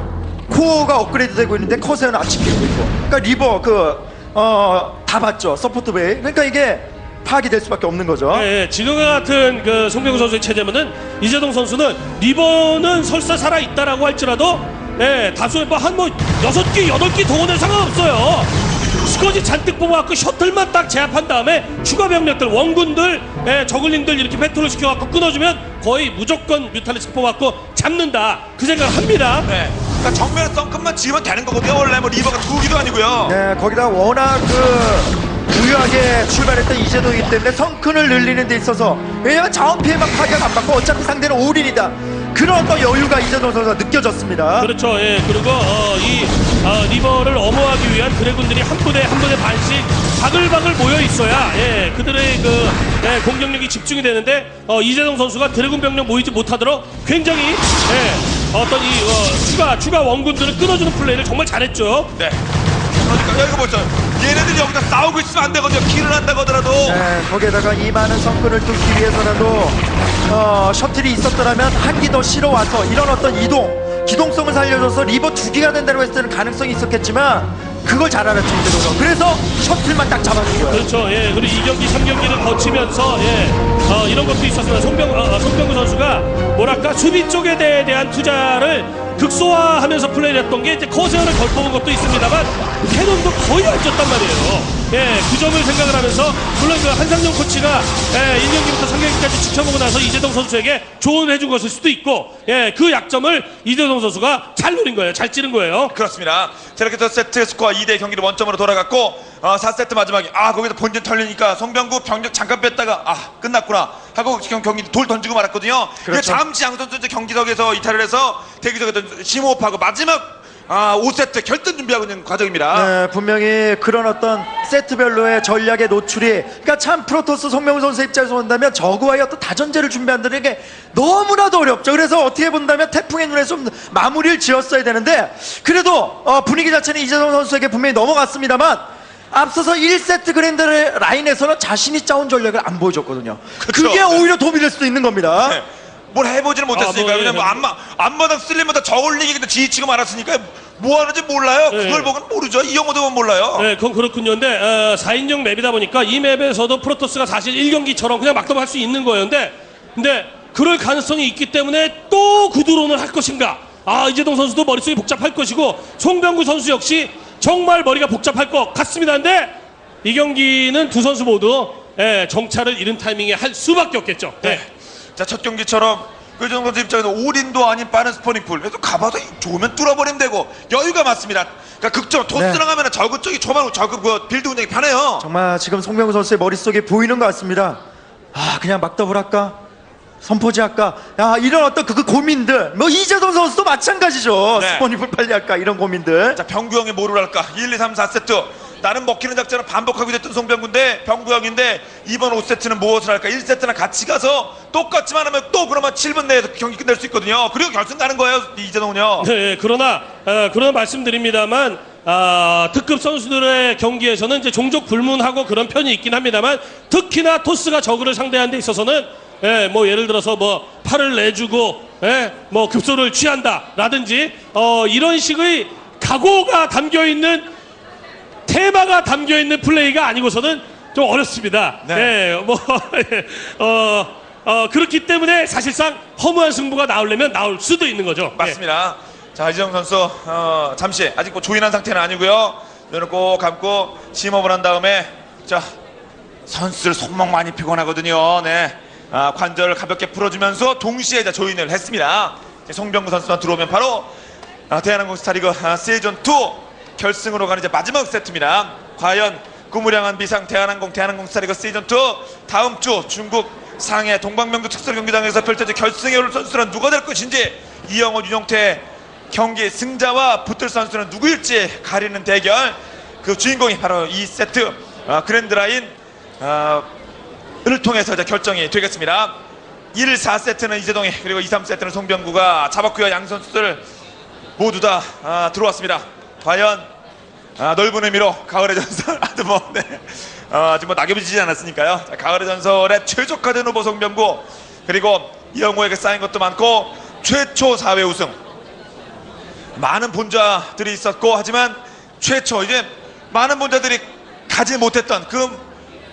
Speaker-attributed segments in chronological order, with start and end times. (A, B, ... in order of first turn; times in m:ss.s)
0:00.5-0:08.5 A
0:08.3-0:29.5 B
0:29.4-0:33.4 C
0:33.2-0:44.7 A
0:44.6-1:02.1 B
1:02.2-1:02.4 C
1:02.9-1:07.0 C
1:06.8-1:20.8 A
1:20.7-1:45.9 B
1:45.9-2:02.9 C
1:56.0-1:56.4 A
2:02.7-2:25.6 A
2:23.6-2:24.3 C
2:25.4-2:33.7 C
2:26.7-2:27.6 B
2:31.7-2:32.1 B
2:33.6-2:49.5 B
2:50.0-2:54.6 B
2:54.4-3:05.2 C
3:02.3-3:02.6 A
3:05.2-3:07.8 A
3:08.3-3:09.6 A
3:10.2-3:16.4 A
3:14.6-3:14.9 C
3:16.4-3:29.3 C
3:29.2-3:47.5 B
3:48.4-3:58.6 B
3:51.8-3:52.1 C
3:58.4-4:05.7 C
4:06.5-4:14.1 C
4:14.7-4:36.9 C
4:37.6-4:39.4 C
4:39.9-4:43.8 C
4:44.6-4:46.9 C
4:47.6-4:58.3 C
4:59.8-5:05.6 C